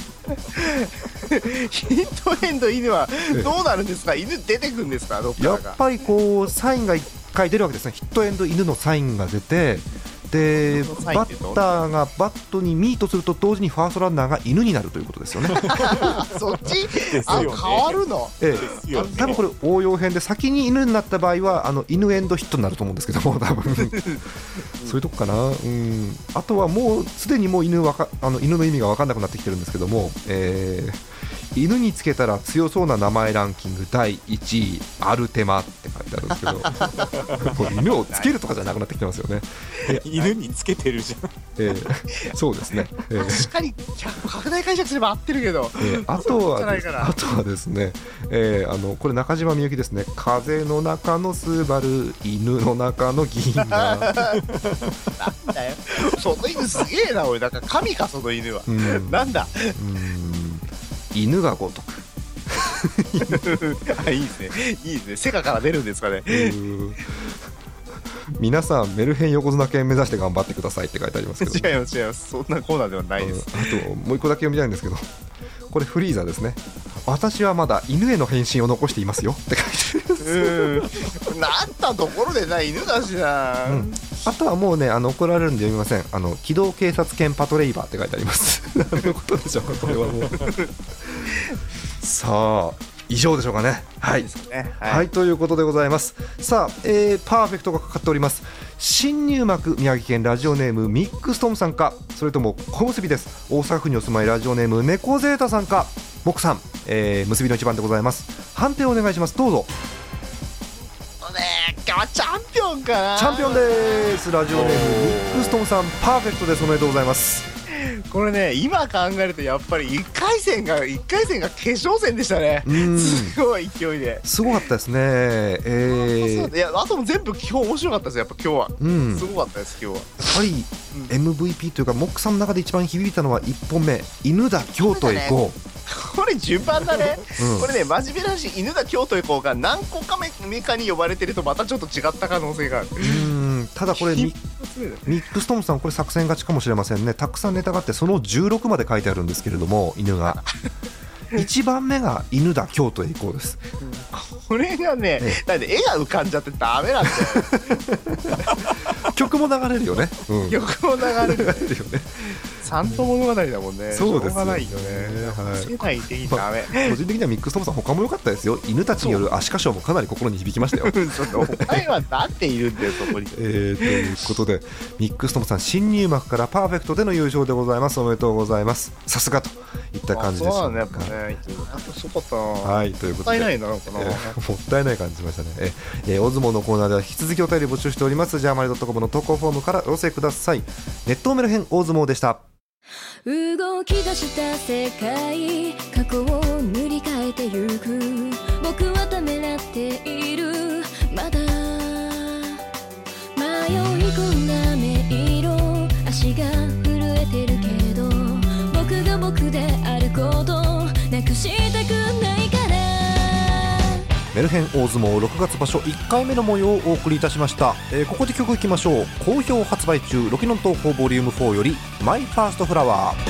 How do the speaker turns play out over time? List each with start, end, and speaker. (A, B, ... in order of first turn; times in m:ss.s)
0:00.3-0:05.8 A
0:05.4-0:15.9 B
0:10.6-0:11.8 A
0:15.5-0:19.4 A
0:16.9-0:18.0 C
0:17.3-0:17.6 B
0:18.4-0:24.1 B
0:18.6-0:19.3 C
0:24.8-0:31.0 B
0:31.5-0:40.0 B
0:36.4-0:37.0 A
0:38.0-0:38.3 A
0:40.0-0:41.3 C
0:40.1-0:40.3 A
0:41.6-0:43.5 B
0:43.1-0:47.1 A
0:45.8-0:54.2 B
0:53.7-0:54.4 A
0:55.2-0:59.8 A
0:58.7-1:03.5 B
1:03.3-1:06.6 A
1:06.3-1:07.3 B
1:08.3-1:11.7 B
1:11.4-1:13.8 A
1:13.2-1:15.1 B
1:15.7-1:21.2 B
1:20.2-1:24.0 A
1:23.7-1:30.6 B
1:32.0-1:34.3 B
1:34.2-1:35.1 A
1:34.8-1:49.7 B
1:51.2-1:55.6 A
1:53.1-1:57.5 B
1:57.7-2:04.6 A
2:02.6-2:03.4 B
2:04.2-2:06.5 B
2:05.9-2:10.2 A
2:08.8-2:09.3 B
2:10.2-2:15.6 B
2:14.8-2:23.3 A
2:17.4-2:17.7 B
2:23.0-2:24.4 B
2:23.9-2:25.1 A
2:25.0-2:30.4 B
2:30.3-2:30.6 A
2:31.3-2:33.6 B
2:33.8-2:37.6 A
2:37.1-2:40.6 B
2:40.4-2:41.7 A
2:41.2-2:42.2 B
2:42.5-2:47.0 A
2:43.9-2:51.8 B
2:49.0-2:49.3 A
2:50.7-2:54.0 A
2:53.3-3:01.1 B
3:00.1-3:04.4 A
3:02.6-3:12.4 B
3:13.2-3:22.6 D
3:23.4-3:34.0 D
3:34.3-3:43.2 B